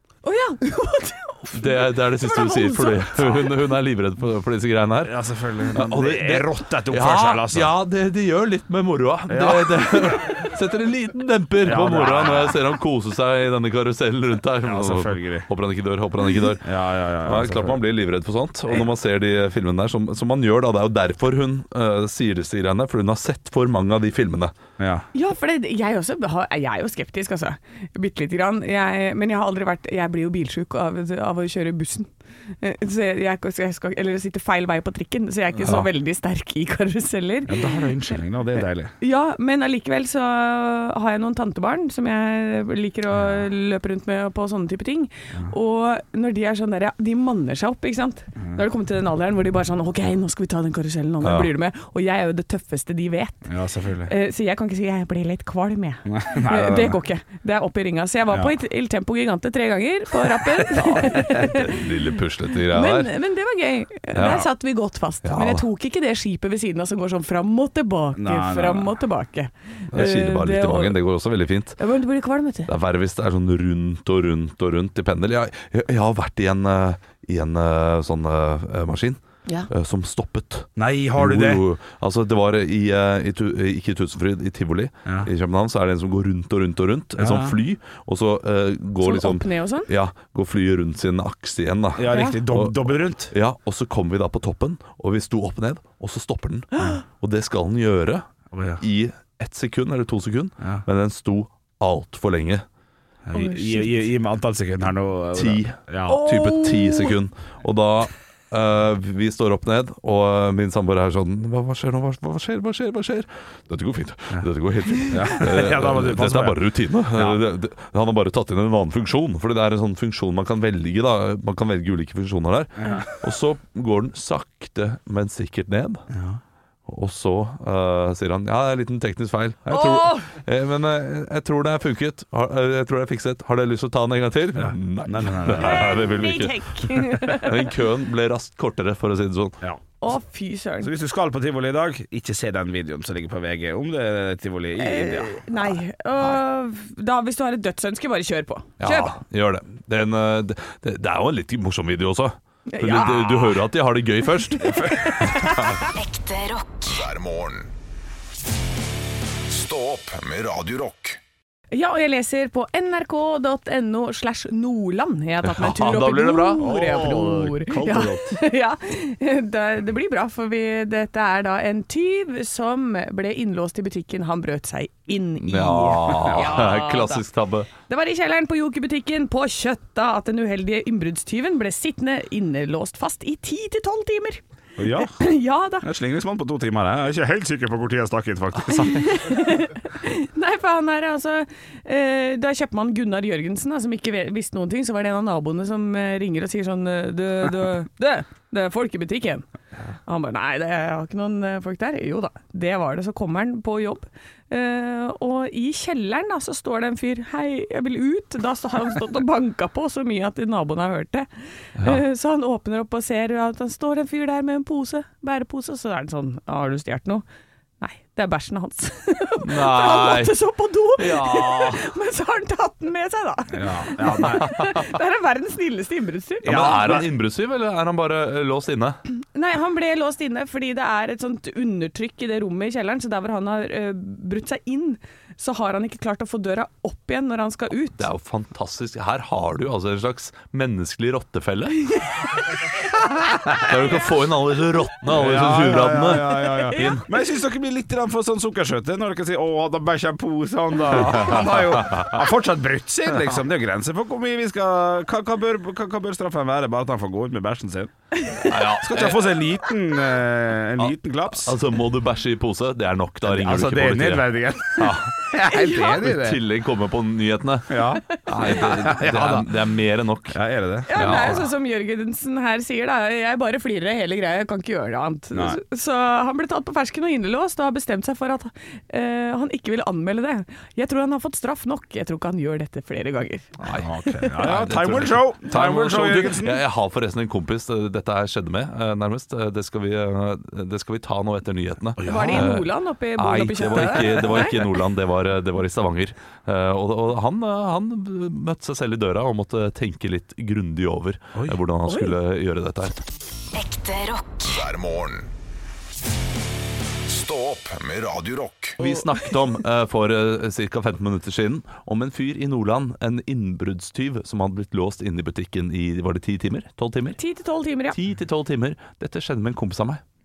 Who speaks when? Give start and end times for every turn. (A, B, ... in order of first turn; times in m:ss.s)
0:00.2-0:03.5 A
0:01.5-0:24.6 B
0:05.0-0:07.7 C
0:09.3-0:10.3 C
0:11.6-0:12.6 C
0:14.6-0:15.5 C
0:16.6-0:17.8 C
0:24.8-0:25.1 C
0:25.1-0:38.2 A
0:35.6-0:35.9 B
0:37.5-0:38.9 C
0:39.0-0:53.5 A
0:51.2-0:51.5 B
0:53.5-0:54.1 C
0:54.1-1:01.8 A
0:56.0-0:57.0 C
1:00.8-1:03.1 B
1:02.7-1:11.0 A
1:04.1-1:04.5 B
1:05.2-1:05.6 B
1:08.2-1:09.0 C
1:09.9-1:11.8 B
1:11.8-1:12.7 A
1:12.7-1:38.3 B
1:20.8-1:21.6 C
1:27.2-1:27.6 C
1:29.0-1:29.9 A
1:32.0-1:33.3 C
1:32.1-1:32.4 A
1:38.5-1:38.8 C
1:38.8-1:42.6 B
1:43.3-1:46.2 C
1:43.3-1:43.9 A
1:45.4-2:06.1 B
1:46.1-1:47.2 A
1:55.1-1:56.6 C
1:57.1-1:57.4 C
2:02.8-2:03.1 C
2:06.1-2:06.4 C
2:06.9-2:19.6 B
2:09.7-2:10.3 A
2:14.6-2:16.1 C
2:15.6-2:17.7 A
2:20.0-2:20.9 A
2:20.8-2:25.5 C
2:24.8-2:29.2 A
2:28.8-2:34.8 B
2:32.7-2:33.6 A
2:34.5-2:35.9 A
2:34.6-2:35.2 C
2:35.9-2:37.0 D
2:36.9-2:37.7 E
2:39.5-2:41.2 E
2:41.7-2:57.2 A
2:45.4-2:46.7 B
2:46.6-2:48.3 C
2:55.5-2:57.7 B
2:56.3-2:56.6 C
2:57.9-3:05.9 A
3:04.8-3:05.2 C
3:05.8-3:09.4 C
3:08.8-3:19.5 A
3:20.1-3:37.2 A
3:37.8-3:46.9 A
3:39.4-3:40.4 B
3:41.0-3:41.8 B
3:43.5-3:44.5 C
3:44.4-3:44.7 B
3:46.4-3:47.1 C
3:46.4-3:49.0 B
3:49.1-3:58.1 A
3:58.0-4:02.0 B
4:02.2-4:02.5 A
4:03.5-4:07.0 B
4:05.1-4:17.9 C
4:06.7-4:06.9 A
4:11.1-4:12.1 B
4:18.4-4:19.3 B
4:18.8-4:21.6 C
4:20.8-4:30.4 B
4:23.3-4:26.4 C
4:25.5-4:26.0 A
4:27.7-4:29.6 C
4:30.3-4:31.4 C
4:30.9-4:43.5 A
4:31.0-4:31.5 B
4:35.3-4:35.6 C
4:43.6-5:03.0 B
4:43.7-4:46.6 C
4:52.0-4:52.5 C
4:52.0-4:54.6 A
5:01.9-5:02.1 A
5:03.5-5:04.5 D
5:04.4-5:05.3 E
5:07.1-5:08.8 E
5:08.8-5:17.2 B
5:17.2-5:18.0 A
5:17.9-5:20.0 B